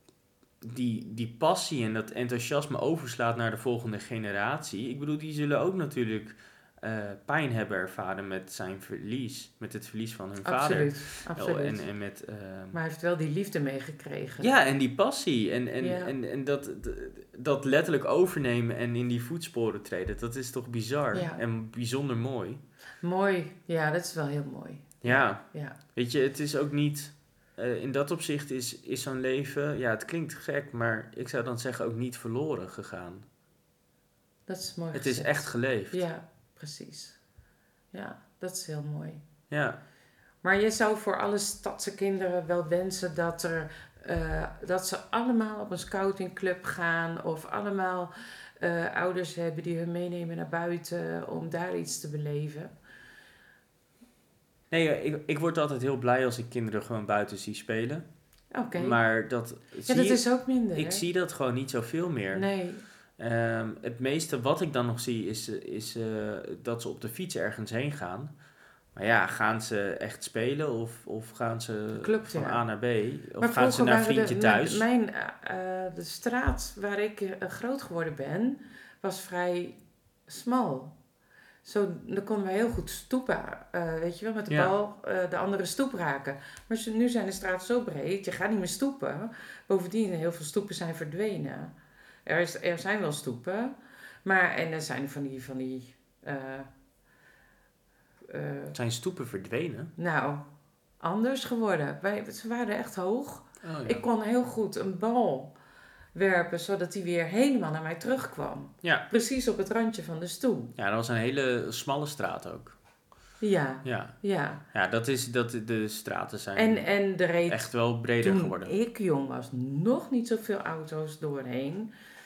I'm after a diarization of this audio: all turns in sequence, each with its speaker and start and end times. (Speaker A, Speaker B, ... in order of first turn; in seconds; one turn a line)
Speaker A: 0.6-12.8
Speaker B: 10.4-11.8
Speaker B: 12.7-14.5
Speaker A: 14.4-22.6
Speaker B: 15.8-16.1
Speaker B: 21.1-21.4
Speaker B: 23.0-25.8
Speaker A: 25.0-33.2
Speaker B: 34.5-37.2
Speaker A: 34.9-36.0
Speaker B: 37.9-39.2
Speaker A: 39.5-39.8
Speaker B: 40.4-52.7
Speaker A: 54.7-58.0
Speaker B: 58.5-59.0
Speaker A: 58.7-60.2
Speaker B: 59.9-61.0
Speaker A: 60.7-62.5
Speaker B: 62.3-62.8
Speaker A: 63.2-68.3
Speaker A: 68.9-74.8
Speaker B: 71.9-72.6
Speaker B: 73.4-80.9
Speaker B: 81.6-91.7
Speaker B: 92.2-96.7
Speaker B: 98.3-98.8
Speaker A: 98.7-99.9
Speaker B: 100.0-100.4
Speaker B: 101.0-105.5
Speaker A: 103.6-104.0
Speaker B: 106.1-110.7
Speaker A: 110.8-112.7
Speaker B: 113.4-114.6
Speaker A: 113.8-114.1
Speaker A: 114.7-116.8
Speaker B: 116.5-121.9
Speaker A: 117.5-118.7